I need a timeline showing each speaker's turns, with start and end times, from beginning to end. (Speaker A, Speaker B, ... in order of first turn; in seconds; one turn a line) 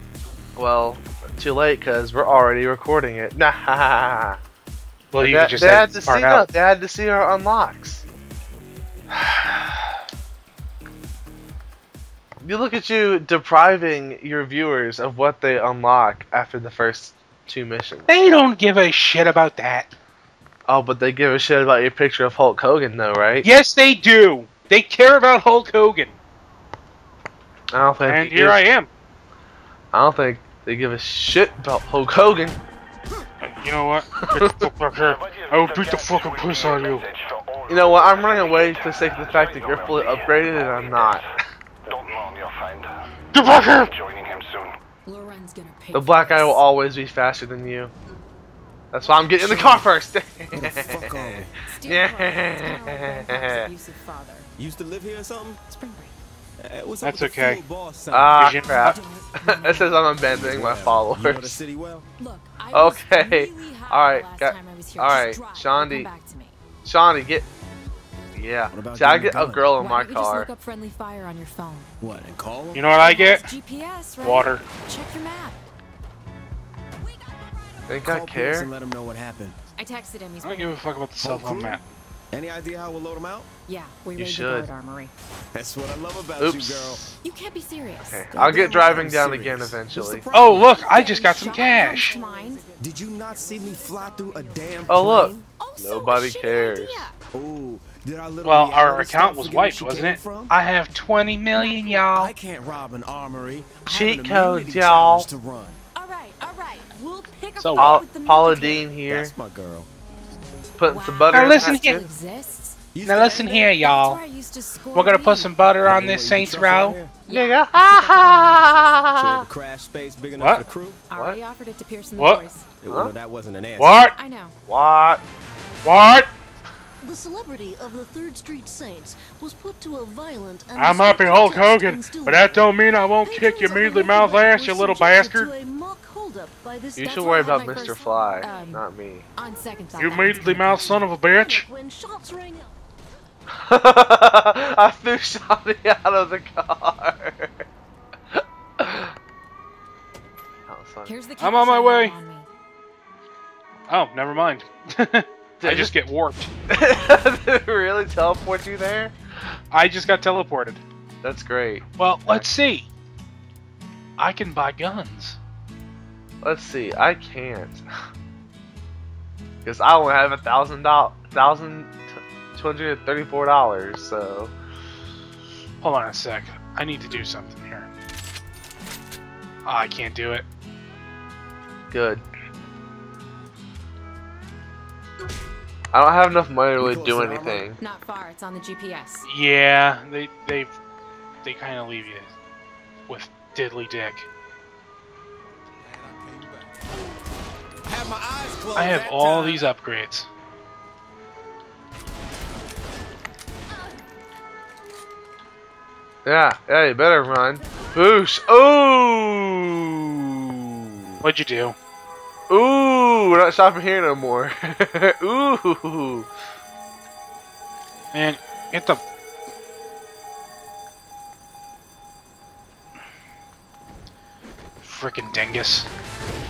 Speaker A: 0.6-4.4
Speaker B: 5.1-6.5
Speaker A: 5.2-8.0
Speaker A: 9.1-9.8
Speaker A: 12.4-18.1
Speaker B: 18.1-19.9
Speaker A: 20.7-23.4
Speaker B: 23.4-26.1
Speaker A: 27.7-28.6
Speaker B: 28.0-28.9
Speaker A: 29.9-32.6
Speaker B: 33.6-37.0
Speaker A: 34.3-34.7
Speaker C: 35.2-41.1
Speaker A: 37.7-41.2
Speaker C: 41.9-42.9
Speaker B: 43.3-43.9
Speaker C: 44.0-44.7
Speaker D: 45.0-46.7
Speaker A: 45.9-47.9
Speaker A: 48.9-53.7
Speaker E: 49.4-49.9
Speaker E: 50.5-51.5
Speaker D: 51.6-54.5
Speaker E: 54.6-55.6
Speaker D: 55.7-56.1
Speaker E: 56.6-58.5
Speaker B: 57.0-57.6
Speaker A: 58.1-61.6
Speaker B: 58.4-59.0
Speaker D: 58.6-60.1
Speaker E: 60.3-62.1
Speaker D: 62.2-66.5
Speaker A: 62.7-66.1
Speaker A: 66.8-67.5
Speaker A: 68.3-70.5
Speaker E: 68.7-69.7
Speaker D: 69.7-71.9
Speaker E: 72.0-72.9
Speaker B: 72.7-73.5
Speaker D: 72.9-75.6
Speaker B: 74.2-74.6
Speaker D: 77.0-78.0
Speaker A: 77.9-78.7
Speaker E: 78.0-79.5
Speaker D: 79.8-80.8
Speaker B: 80.4-81.8
Speaker E: 81.2-81.8
Speaker E: 82.3-83.5
Speaker D: 83.7-85.1
Speaker A: 84.2-84.7
Speaker E: 85.5-87.0
Speaker A: 86.4-87.2
Speaker D: 87.2-89.0
Speaker A: 88.0-90.3
Speaker E: 88.3-90.8
Speaker B: 90.3-92.2
Speaker D: 90.4-92.8
Speaker E: 92.8-95.4
Speaker D: 94.5-94.9
Speaker A: 94.9-97.1
Speaker D: 95.5-97.1
Speaker E: 97.3-100.5
Speaker B: 98.4-102.3
Speaker D: 101.5-102.1
Speaker E: 102.1-105.8
Speaker A: 103.8-105.3
Speaker D: 105.9-109.0
Speaker B: 107.6-108.0
Speaker A: 107.8-109.3
Speaker E: 109.1-109.9
Speaker A: 110.8-112.0
Speaker D: 110.8-112.8
Speaker B: 111.3-112.0
Speaker E: 112.9-113.6
Speaker B: 113.0-114.2
Speaker D: 113.6-115.5
Speaker B: 114.9-117.0
Speaker E: 115.8-117.2
Speaker D: 117.2-119.0
Speaker A: 117.3-119.5
Speaker E: 119.2-121.0
Speaker B: 120.4-120.6
Speaker D: 121.1-122.8
Speaker A: 121.1-121.4
Speaker B: 122.2-122.4
Speaker E: 122.8-124.0
Speaker A: 122.9-123.1
Speaker B: 123.8-124.1
Speaker D: 124.1-124.5
Speaker A: 124.7-125.2
Speaker B: 125.8-126.3
Speaker F: 127.0-132.5
Speaker B: 130.8-135.5
Speaker F: 133.2-138.7
Speaker A: 137.0-139.3
Speaker D: 137.0-141.0
Speaker B: 140.0-141.7
Speaker F: 141.0-142.7
Speaker A: 143.6-147.6
Speaker A: 148.3-149.1
Speaker A: 150.7-151.1
Speaker D: 151.1-152.5
Speaker B: 151.4-152.1
Speaker B: 153.9-156.5
Speaker A: 155.6-155.9
Speaker A: 156.7-159.1
Speaker B: 159.7-160.8
Speaker A: 161.2-162.4
Speaker B: 162.0-162.9
Speaker B: 164.2-165.4
Speaker A: 166.4-167.9
Speaker A: 169.6-174.5
Speaker B: 175.8-177.9
Speaker B: 179.6-180.4
Speaker A: 181.9-182.2
Speaker A: 185.9-187.8
Speaker E: 186.8-187.7
Speaker D: 187.8-189.2
Speaker B: 189.2-190.8
Speaker B: 191.4-192.3
Speaker B: 193.1-194.3
Speaker E: 195.8-196.9
Speaker E: 197.9-199.7
Speaker B: 198.7-200.3
Speaker A: 206.2-211.2
Speaker B: 211.2-211.8
Speaker A: 212.5-216.3
Speaker B: 218.1-219.0
Speaker B: 224.8-225.9